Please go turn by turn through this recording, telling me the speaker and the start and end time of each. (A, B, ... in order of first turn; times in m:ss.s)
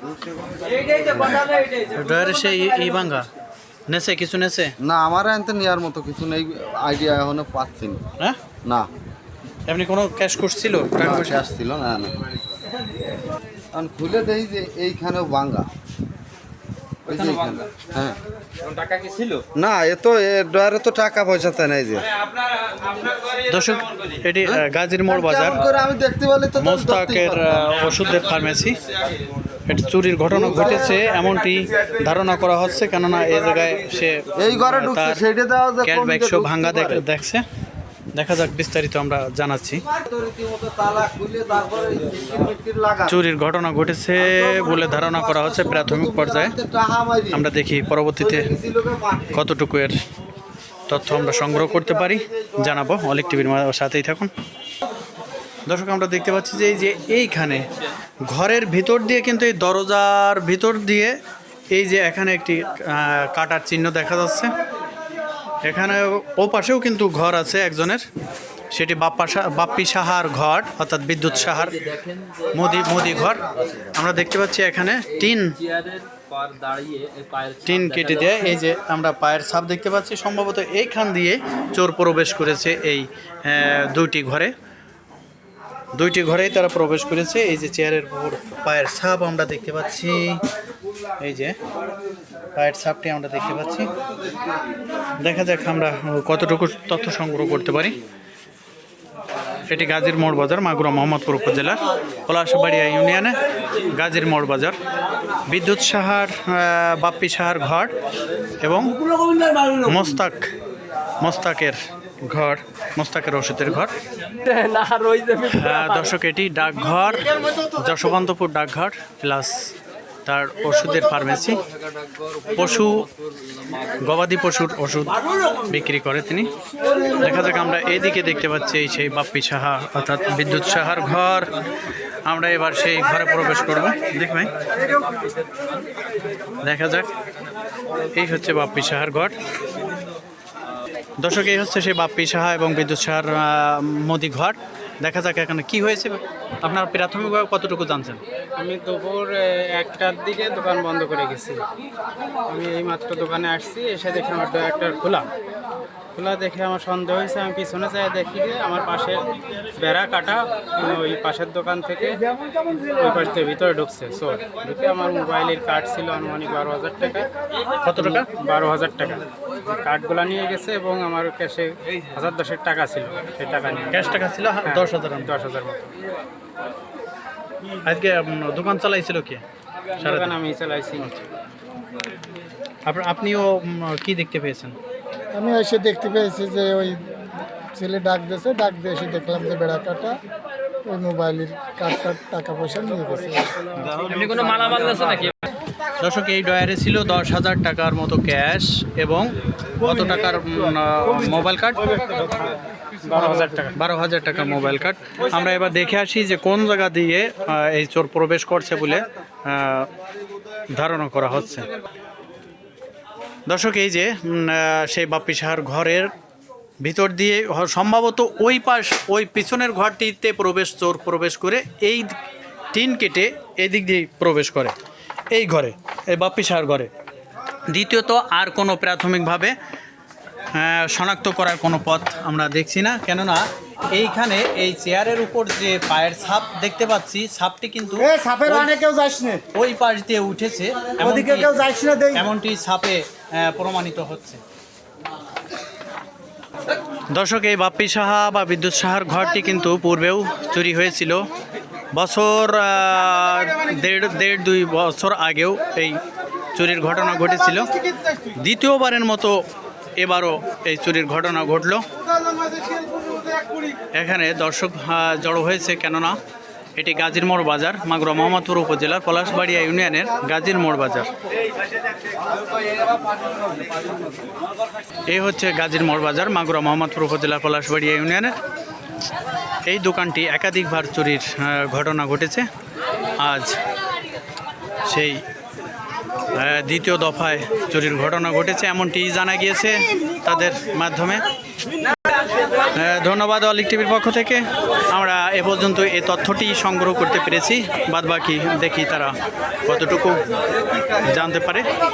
0:00.3-0:01.4 A
0:01.9-0:03.3 B
0:03.9-0:04.7 B
0:04.8-0:08.0 A
0:09.7-0:11.4 B
0:11.0-0:12.2 A
0:13.7-0:15.7 A
0:17.1-0:18.2 A
0:18.6-0:19.4 C
0:19.6-0:22.1 A
0:23.5-0:25.6 B
0:24.5-0:27.7 A
0:26.6-0:28.8 B
0:29.7-0:35.2 B
0:30.3-0:31.0 A
0:34.4-0:37.0 A
0:35.8-0:37.4 B
0:38.2-0:39.8 B
0:39.9-0:43.2 A
0:43.1-0:46.6 B
0:44.2-0:47.4 A
0:47.3-0:48.5 B
0:48.2-0:49.4 A
0:49.3-0:50.0 B
0:50.9-0:54.3 B
0:55.7-0:57.7 B
0:58.3-1:01.2 B
1:01.7-1:04.5 B
1:05.6-1:08.0 B
1:08.7-1:12.0 B
1:12.0-1:12.4 C
1:12.5-1:15.6 B
1:15.6-1:17.7 C
1:17.6-1:24.5 B
1:26.0-1:30.4 B
1:31.2-1:31.6 B
1:32.6-1:33.9 B
1:35.2-1:38.0 B
1:39.7-1:43.4 B
1:43.9-1:44.8 B
1:45.5-1:47.9 B
1:48.6-1:49.0 B
1:49.7-1:50.5 B
1:51.2-1:53.9 B
1:54.4-1:55.7 C
1:55.3-1:59.7 B
2:00.2-2:01.6 B
2:01.8-2:02.4 C
2:02.4-2:03.1 B
2:03.5-2:03.8 C
2:04.0-2:06.5 B
2:07.2-2:11.5 B
2:12.2-2:14.5 B
2:16.6-2:17.1 B
2:18.1-2:19.4 B
2:21.2-2:28.2 B
2:28.6-2:31.6 D
2:32.5-2:35.3 D
2:36.2-2:42.2 D
2:42.9-2:47.3 D
2:47.8-2:48.3 B
2:48.0-2:55.9 D
2:53.9-2:55.3 B
2:57.9-2:59.4 B
3:00.0-3:01.3 D
3:00.0-3:00.4 B
3:02.9-3:04.8 B
3:05.3-3:07.0 E
3:07.8-3:10.2 E
3:10.9-3:13.7 E
3:13.9-3:15.0 D
3:14.1-3:15.3 C
3:16.0-3:21.8 B
3:23.1-3:23.8 D
3:23.1-3:29.9 B
3:30.8-3:31.7 B
3:33.5-3:36.1 B
3:36.8-3:42.2 B
3:42.7-3:44.7 B
3:45.3-3:46.9 B
3:47.7-3:49.5 B
3:50.5-3:58.9 B
3:59.5-4:04.4 B
4:07.1-4:11.2 B
4:11.9-4:16.0 B
4:16.6-4:17.7 B
4:18.4-4:19.4 B
4:20.0-4:21.8 B
4:24.0-4:26.2 B
4:26.8-4:31.1 B
4:32.3-4:33.9 A
4:35.1-4:38.4 B
4:39.7-4:42.4 B
4:43.2-4:43.6 B
4:44.9-4:45.2 B
4:46.4-4:51.2 B
4:52.8-4:59.1 B
4:59.6-5:00.3 B
5:01.1-5:01.7 B